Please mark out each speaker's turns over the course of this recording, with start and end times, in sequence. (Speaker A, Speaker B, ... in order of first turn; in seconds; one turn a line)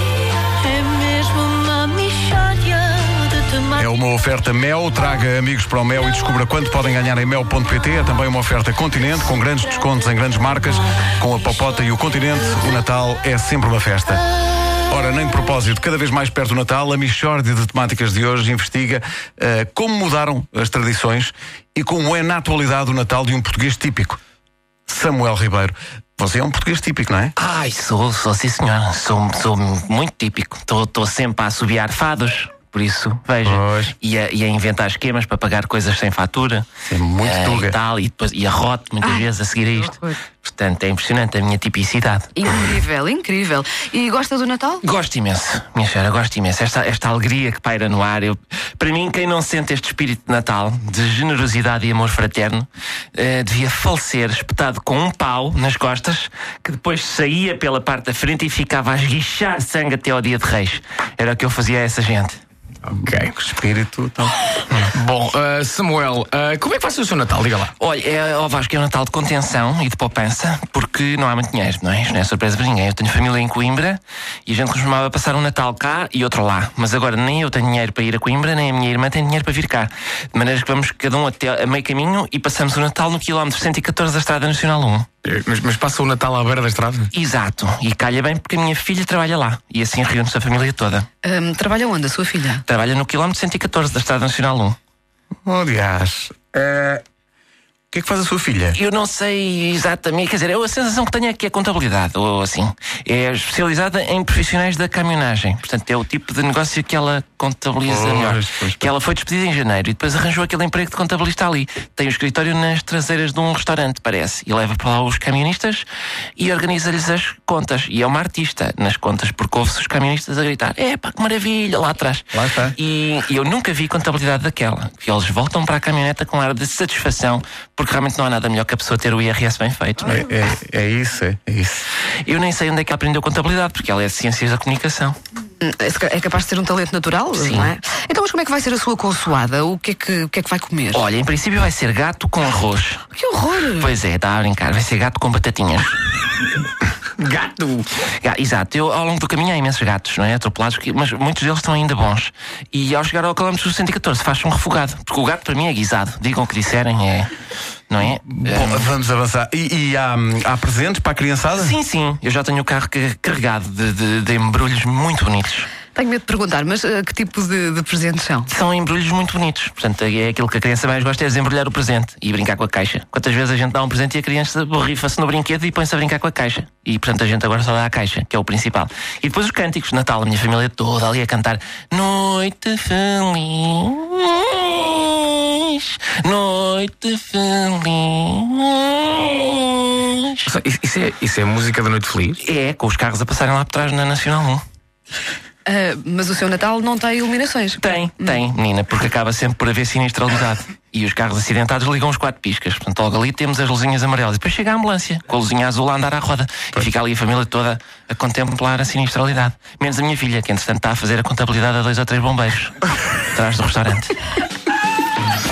Speaker A: 0.6-3.7
Speaker B: 3.8-14.2
Speaker B: 14.9-24.2
Speaker B: 24.9-27.3
Speaker C: 27.4-36.7
Speaker B: 33.4-34.0
Speaker B: 36.9-37.8
Speaker C: 37.2-42.5
Speaker D: 39.8-40.2
Speaker D: 42.4-44.8
Speaker C: 44.8-62.4
Speaker E: 62.9-63.3
Speaker B: 62.9-64.4
Speaker E: 64.7-67.7
Speaker C: 67.8-85.1
Speaker E: 85.2-87.1
Speaker C: 87.1-91.1
Speaker D: 91.2-92.6
Speaker C: 92.7-94.8
Speaker B: 95.5-97.0
Speaker B: 97.9-98.8
Speaker C: 98.7-115.9
Speaker B: 107.9-108.9
Speaker C: 116.4-130.2
Speaker B: 122.3-122.8
Speaker B: 130.0-131.8
Speaker C: 132.2-135.2
Speaker D: 135.6-141.1
Speaker C: 137.3-137.7
Speaker C: 140.9-143.0
Speaker D: 143.2-143.9
Speaker C: 143.8-146.0
Speaker E: 147.2-147.9
Speaker C: 148.2-157.3
Speaker C: 157.9-158.9
Speaker B: 158.2-161.8
Speaker C: 161.6-165.7
Speaker D: 165.9-168.5
Speaker C: 168.5-190.4
Speaker E: 190.5-192.4
Speaker C: 192.4-194.6
Speaker D: 195.7-198.4
Speaker C: 197.8-214.2